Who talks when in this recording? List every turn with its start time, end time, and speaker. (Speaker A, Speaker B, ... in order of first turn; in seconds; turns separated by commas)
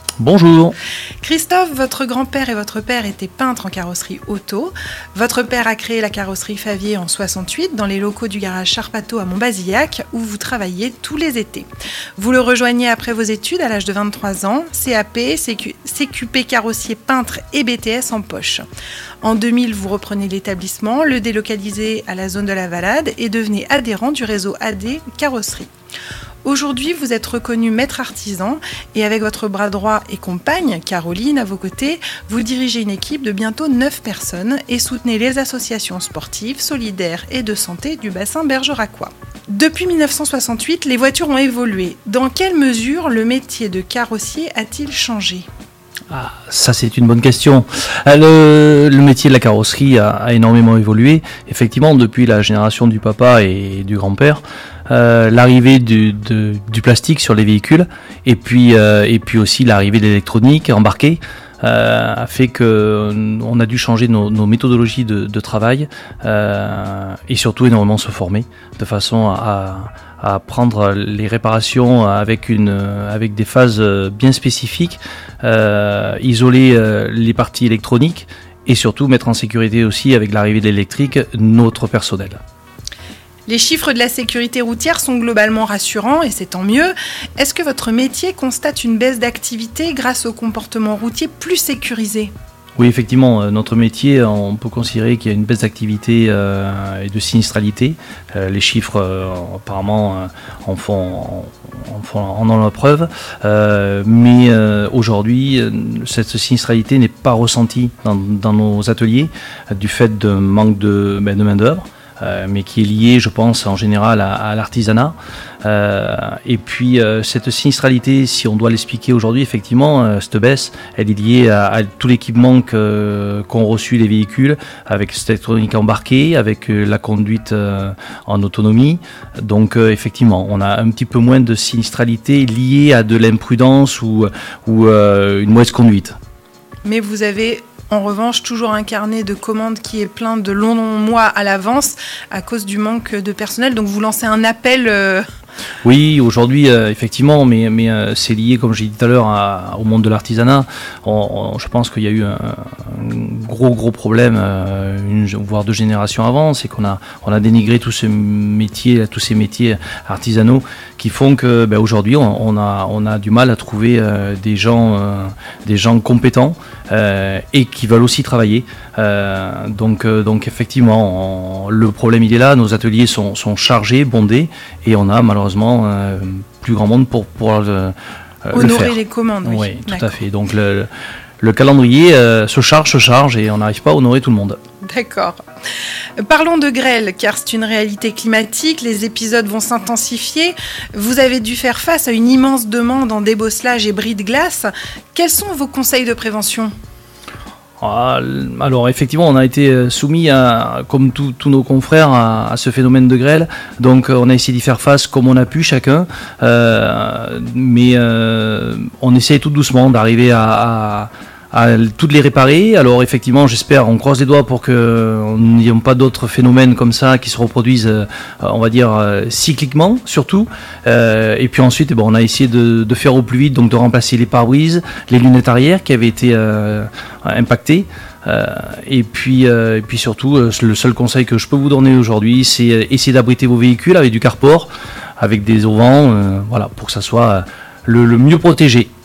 Speaker A: 0.2-0.8, Speaker B: 1.2-18.6, Speaker B: 19.2-25.7, Speaker B: 26.4-45.5, Speaker A: 46.1-82.4, Speaker B: 83.5-92.3, Speaker A: 92.8-136.2, Speaker B: 136.8-145.2, Speaker A: 145.8-177.9, Speaker A: 178.5-180.9, Speaker B: 178.5-180.2, Speaker A: 181.4-184.6, Speaker B: 184.8-185.4, Speaker B: 186.2-196.7, Speaker A: 197.8-234.7, Speaker A: 235.2-238.9